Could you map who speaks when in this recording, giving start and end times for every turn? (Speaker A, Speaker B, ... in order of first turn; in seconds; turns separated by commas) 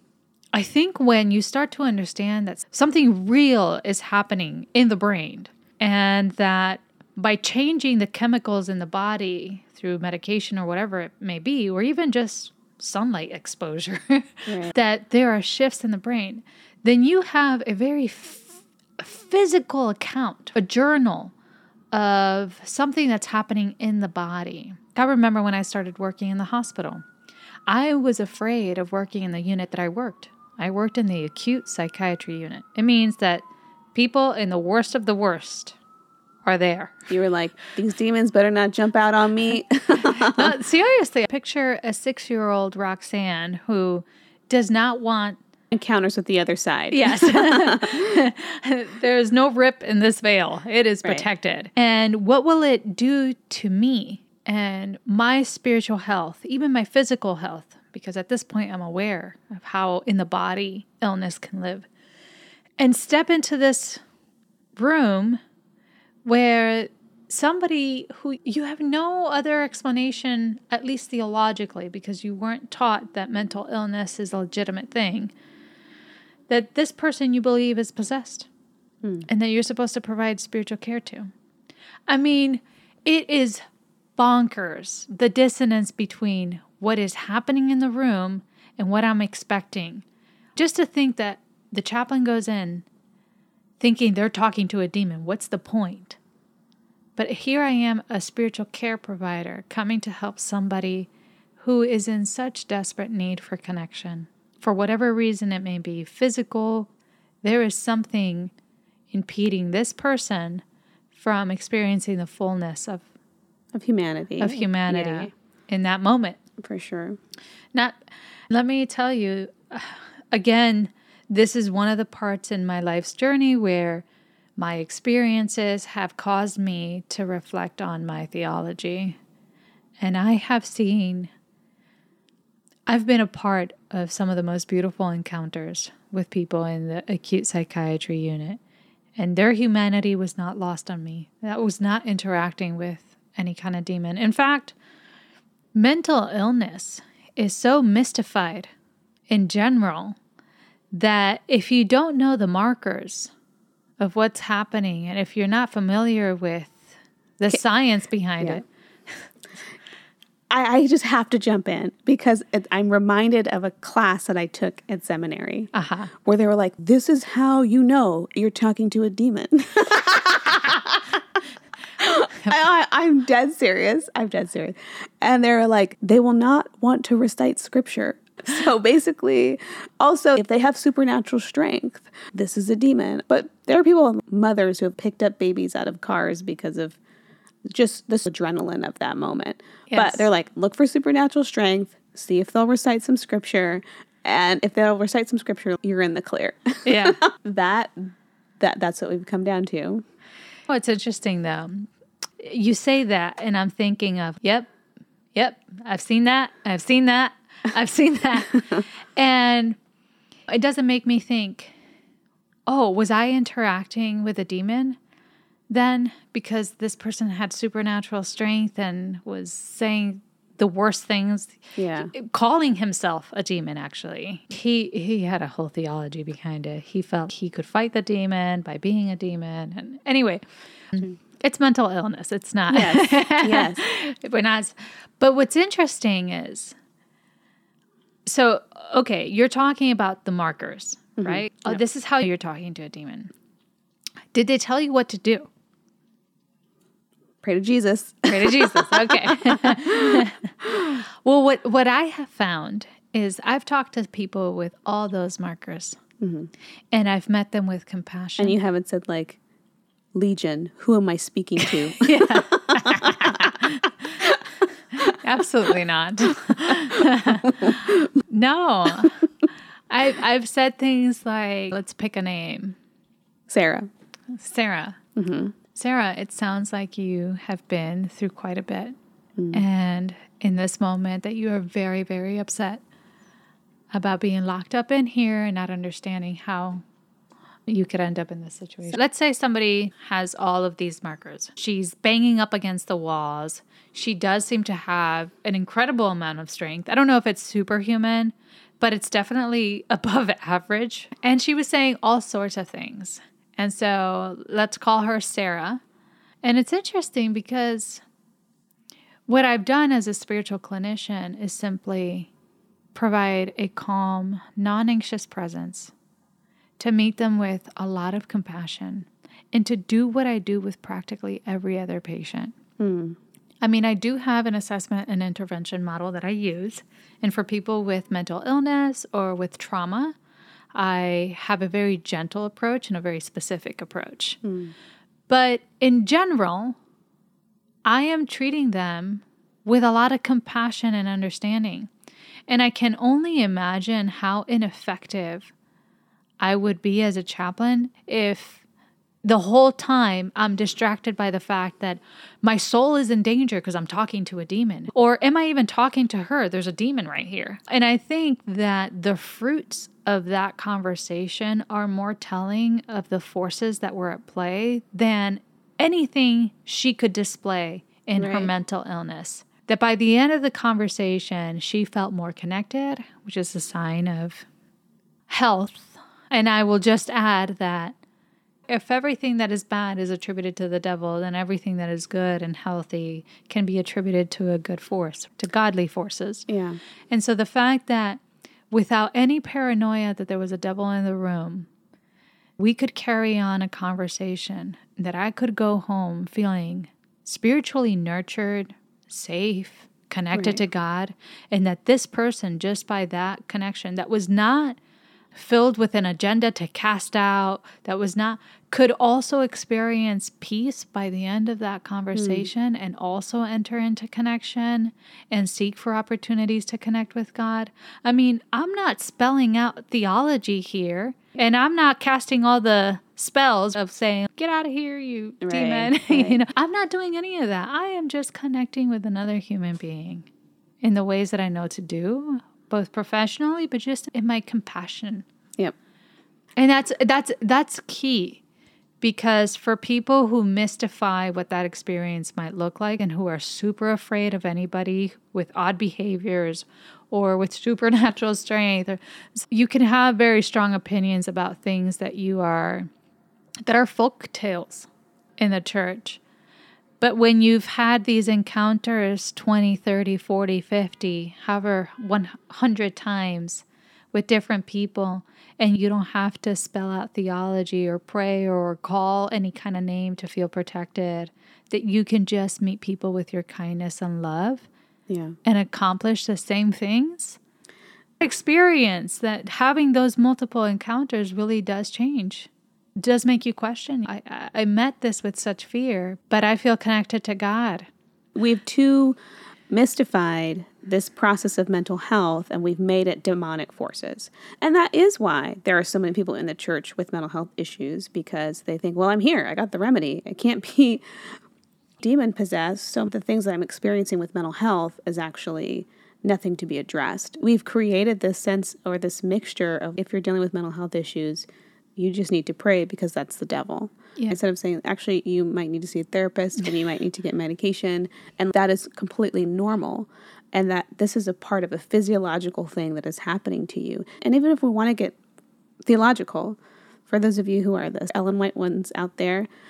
Speaker A: 0.5-21.3, Speaker A: 21.9-27.1, Speaker A: 27.7-35.8, Speaker A: 36.5-37.1, Speaker B: 37.1-40.5, Speaker A: 40.0-45.4, Speaker B: 45.7-48.2, Speaker A: 46.9-61.9, Speaker A: 62.8-64.0, Speaker A: 64.8-65.4, Speaker A: 66.2-75.3, Speaker A: 76.5-78.5, Speaker A: 79.3-81.3, Speaker A: 82.1-83.7, Speaker A: 84.2-90.0, Speaker A: 90.6-92.9, Speaker A: 93.8-96.2, Speaker A: 97.2-106.9, Speaker A: 107.4-108.5, Speaker A: 109.1-113.1, Speaker B: 113.7-115.3, Speaker A: 114.4-116.4, Speaker B: 116.6-117.2, Speaker A: 117.7-124.0, Speaker A: 124.6-129.2, Speaker A: 130.0-131.3, Speaker A: 132.9-138.6, Speaker A: 139.2-144.8, Speaker A: 145.7-148.7, Speaker A: 149.3-150.2, Speaker A: 150.9-153.3, Speaker A: 154.0-158.7, Speaker B: 160.5-171.2, Speaker A: 165.7-166.1, Speaker B: 172.0-187.0, Speaker B: 187.7-200.0, Speaker A: 189.9-190.3, Speaker A: 196.8-197.2, Speaker A: 200.7-204.7, Speaker A: 205.3-209.8, Speaker A: 210.5-211.8, Speaker A: 212.7-215.0, Speaker A: 215.7-236.8, Speaker B: 221.8-222.1, Speaker B: 232.7-233.8, Speaker A: 238.3-243.3, Speaker B: 241.2-241.8, Speaker A: 244.3-245.5, Speaker B: 247.4-251.0, Speaker A: 248.3-256.0, Speaker B: 256.2-256.5, Speaker A: 256.9-258.6, Speaker B: 258.4-259.4, Speaker B: 260.1-264.4, Speaker A: 261.6-264.3, Speaker A: 264.9-269.2, Speaker B: 266.9-268.0, Speaker A: 269.9-272.8, Speaker B: 273.5-273.9, Speaker A: 274.3-275.0, Speaker B: 275.2-275.6, Speaker A: 275.7-278.9, Speaker B: 279.4-279.6, Speaker A: 279.5-282.8, Speaker A: 283.9-286.8, Speaker A: 287.7-305.8, Speaker A: 306.4-308.0, Speaker A: 309.3-312.3, Speaker A: 312.9-315.9, Speaker A: 316.8-322.6, Speaker B: 322.8-323.2, Speaker A: 323.6-330.1, Speaker A: 330.8-334.4, Speaker B: 334.4-334.7, Speaker A: 335.3-336.8, Speaker A: 337.9-341.9, Speaker A: 342.5-345.5, Speaker A: 346.4-348.6, Speaker A: 349.2-374.5, Speaker B: 368.2-368.5, Speaker A: 375.3-378.0, Speaker A: 378.7-386.5, Speaker B: 386.5-386.8, Speaker A: 387.1-391.7, Speaker A: 392.6-404.8, Speaker B: 400.3-400.6, Speaker A: 405.3-430.3, Speaker B: 412.1-412.5, Speaker B: 425.4-426.4, Speaker A: 430.8-435.2, Speaker A: 436.6-438.4, Speaker A: 439.0-452.9, Speaker A: 453.7-456.2, Speaker A: 457.0-474.7, Speaker B: 475.1-475.4, Speaker A: 475.4-477.4, Speaker A: 478.2-487.9, Speaker B: 488.4-489.2, Speaker B: 489.7-501.0, Speaker B: 502.0-525.2, Speaker B: 525.9-529.5